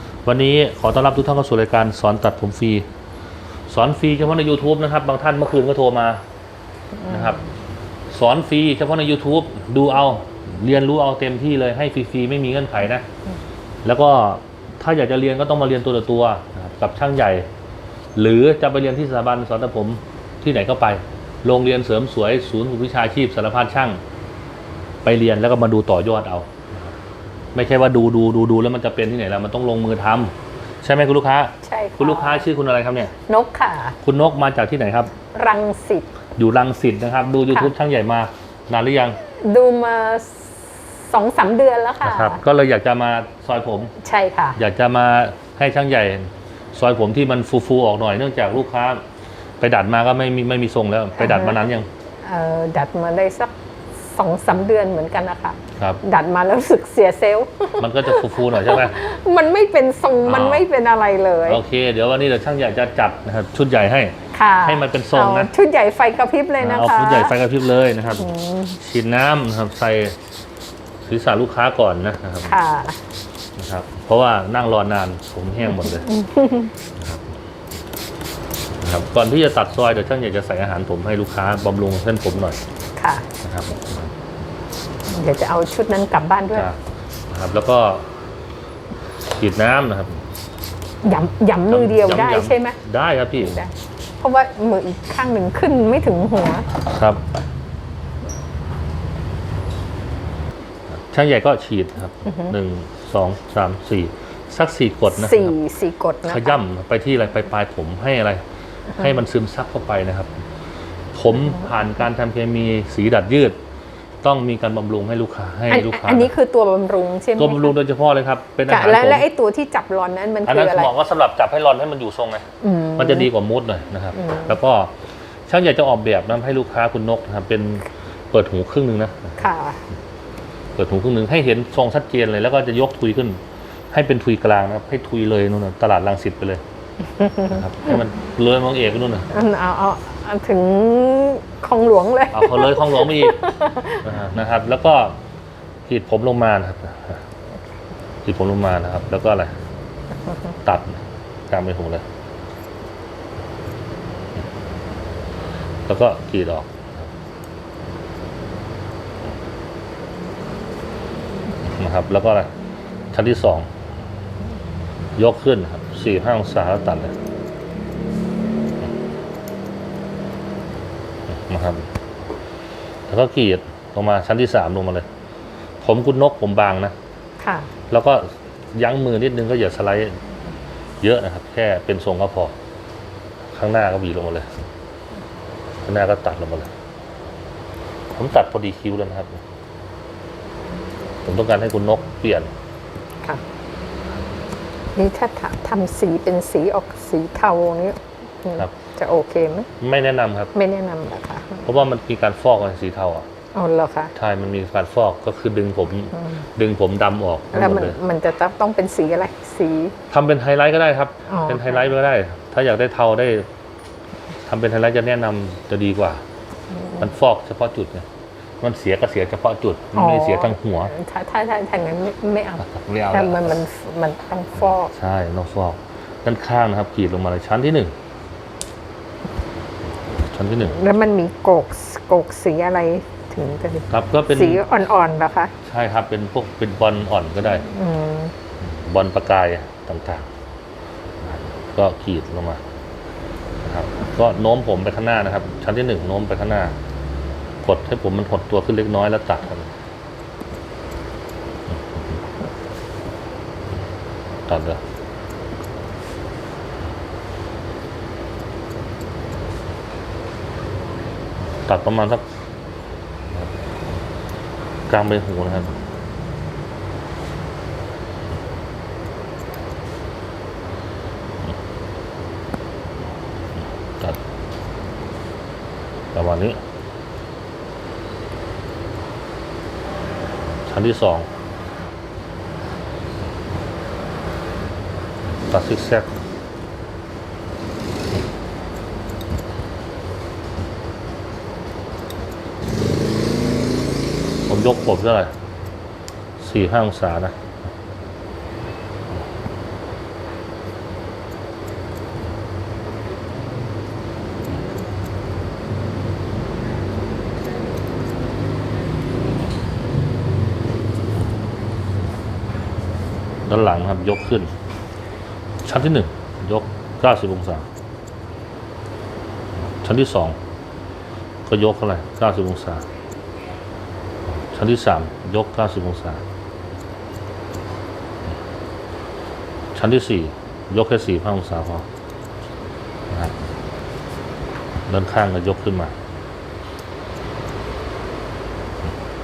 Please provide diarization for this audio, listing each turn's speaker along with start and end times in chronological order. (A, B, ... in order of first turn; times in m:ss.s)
0:00.2-0:02.8 A
0:03.7-0:06.2 A
0:07.0-0:07.4 B
0:07.1-0:07.4 A
0:08.1-0:13.0 A
0:13.8-0:17.5 A
0:18.1-0:24.0 A
0:25.0-0:26.9 A
0:27.5-0:33.1 A
0:31.6-0:32.4 B
0:33.3-0:34.0 B
0:34.0-0:35.1 A
0:35.3-0:36.1 B
0:36.4-0:39.2 A
0:39.4-0:42.4 B
0:42.0-0:43.9 A
0:44.0-0:44.6 B
0:44.6-0:49.0 A
0:49.6-0:51.9 A
0:51.2-0:51.6 B
0:52.2-1:01.6 B
0:57.8-0:59.0 A
1:00.2-1:00.7 A
1:01.5-1:05.5 A
1:04.3-1:07.4 B
1:06.6-1:10.2 A
1:08.2-1:08.8 B
1:11.0-1:12.5 A
1:12.4-1:13.0 B
1:13.6-1:16.1 A
1:15.8-1:16.7 B
1:16.9-1:17.3 A
1:18.8-1:22.6 A
1:23.0-1:23.3 B
1:23.4-1:24.1 A
1:25.1-1:26.7 B
1:27.3-1:28.0 A
1:29.4-1:30.2 A
1:31.0-1:32.8 B
1:31.7-1:33.6 A
1:33.4-1:36.7 B
1:36.8-1:37.2 A
1:40.9-1:45.5 A
1:42.2-1:42.5 B
1:45.1-1:46.6 B
1:46.2-1:48.4 A
1:48.9-1:50.4 A
1:51.1-1:53.6 A
1:54.2-1:56.3 A
1:55.7-1:57.7 B
1:57.4-1:59.3 A
1:58.7-2:00.9 B
2:00.4-2:04.9 A
2:02.6-2:03.3 B
2:04.1-2:04.5 B
2:05.5-2:09.4 A
2:09.4-2:09.8 B
2:10.8-2:13.4 A
2:13.9-2:16.6 A
2:17.1-2:17.9 B
2:17.4-2:19.3 A
2:19.3-2:24.0 B
2:22.3-2:23.5 A
2:24.0-2:25.2 A
2:25.8-2:27.2 A
2:28.2-2:29.5 A
2:30.6-2:32.0 A
2:35.8-2:37.1 A
2:41.6-2:42.5 A
2:43.1-2:43.7 A
2:45.2-2:47.1 A
2:51.3-2:51.9 A
2:53.1-2:55.1 A
2:55.8-2:56.9 A
2:57.4-2:57.7 B
2:57.9-3:00.2 A
3:01.0-3:02.5 A
3:03.5-3:04.5 A
3:05.8-3:06.7 A
3:08.1-3:09.4 A
3:11.2-3:12.5 A
3:14.9-3:19.7 B
3:19.8-3:20.5 A
3:20.5-3:21.7 B
3:21.6-3:23.2 A
3:23.5-3:24.1 B
3:24.1-3:28.0 A
3:26.1-3:26.4 B
3:27.5-3:30.0 B
3:30.1-3:33.4 A
3:31.3-3:31.9 B
3:34.4-3:36.2 A
3:36.7-3:37.1 B
3:37.0-3:38.1 A
3:38.6-3:40.9 A
3:39.9-3:44.9 B
3:42.6-3:43.6 A
3:44.9-3:47.9 A
3:50.1-3:50.8 A
3:50.6-3:55.5 B
3:53.9-3:54.6 A
3:55.6-3:57.6 A
3:57.6-3:58.3 B
3:58.6-4:00.3 A
4:01.2-4:02.6 A
4:03.6-4:06.8 A
4:07.6-4:09.7 A
4:14.4-4:14.8 A
4:21.6-4:22.2 A
4:24.9-4:25.8 A
4:36.1-4:36.6 A
4:40.7-4:41.3 A
4:45.5-4:46.2 A
4:54.5-4:55.3 A
4:56.4-4:57.4 A
5:13.4-5:14.5 A
5:15.6-5:17.7 A
5:19.6-5:20.4 A
5:21.4-5:22.8 A
5:24.3-5:26.2 A
5:29.7-5:31.9 A
5:33.1-5:33.4 A
5:34.9-5:35.9 A